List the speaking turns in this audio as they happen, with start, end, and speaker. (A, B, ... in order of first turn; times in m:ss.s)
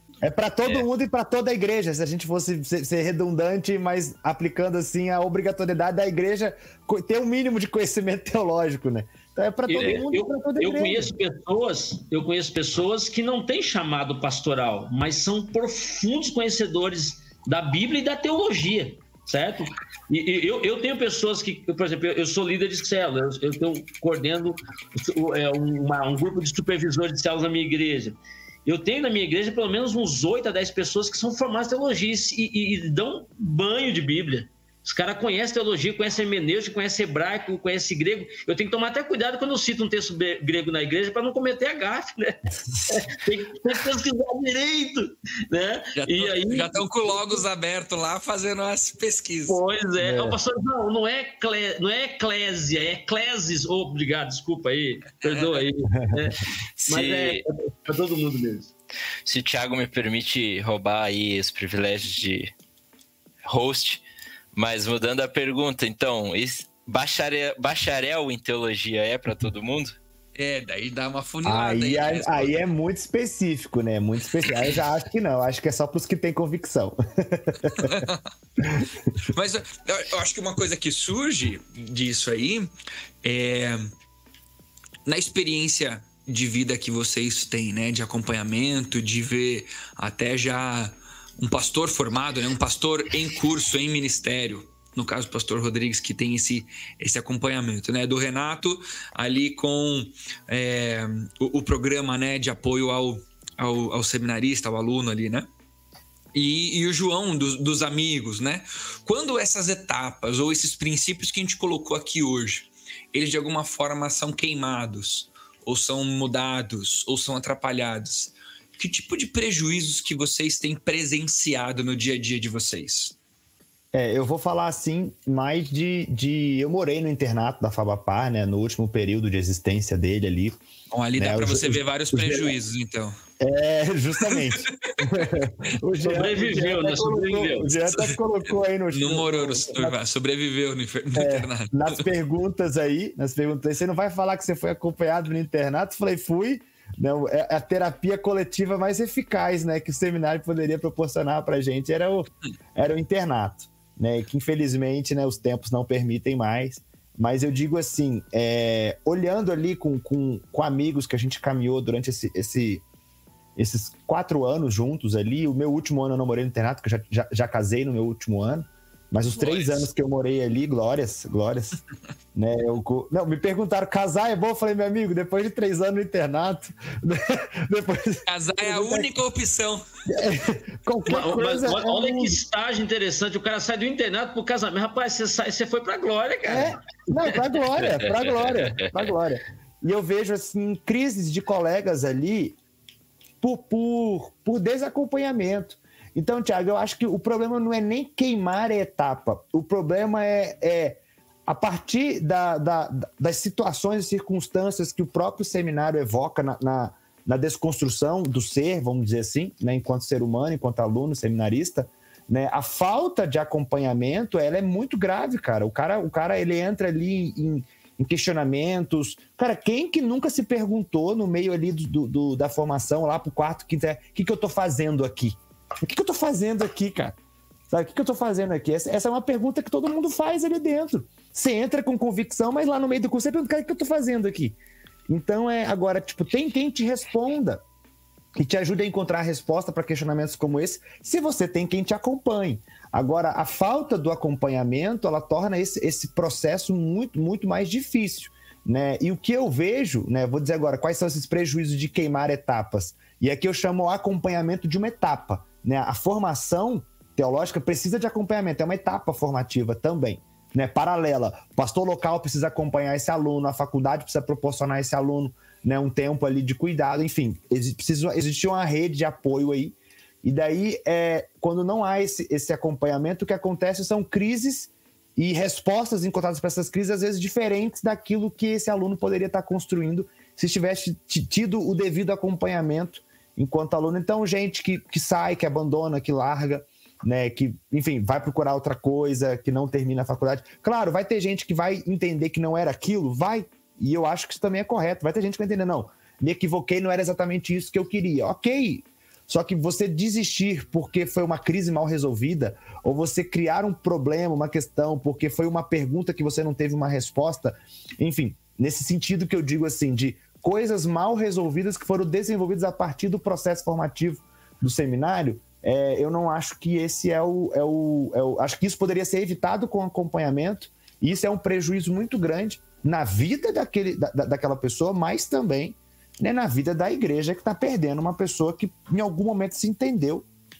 0:00.2-0:11.1 A
0:09.7-0:47.4 B
0:45.9-0:49.6 C
0:49.5-0:58.7 B
0:50.0-0:50.4 A
0:55.2-0:55.6 C
0:56.8-0:57.4 D
0:59.2-1:02.5 D
1:03.4-1:10.0 D
1:10.4-1:12.7 C
1:11.4-1:18.0 A
1:17.8-1:18.2 C
1:18.6-1:18.9 A
1:19.3-1:22.7 C
1:23.2-1:23.9 C
1:25.0-1:45.5 C
1:46.3-2:03.1 C
2:03.9-2:10.6 A
2:10.9-2:13.1 C
2:11.2-2:12.5 A
2:13.4-2:20.0 A
2:14.2-2:15.4 C
2:16.0-2:17.8 B
2:18.9-2:22.1 C
2:21.1-2:42.8 A
2:43.6-2:51.8 A
2:49.4-2:49.9 C
2:52.3-2:59.1 A
2:58.3-2:59.8 C
3:00.1-3:02.4 A
3:01.1-3:07.4 B
3:06.4-3:12.6 A
3:08.4-3:08.8 D
3:13.4-3:47.2 A
3:47.7-3:54.6 A
3:55.1-3:57.6 A
3:58.3-5:30.3 A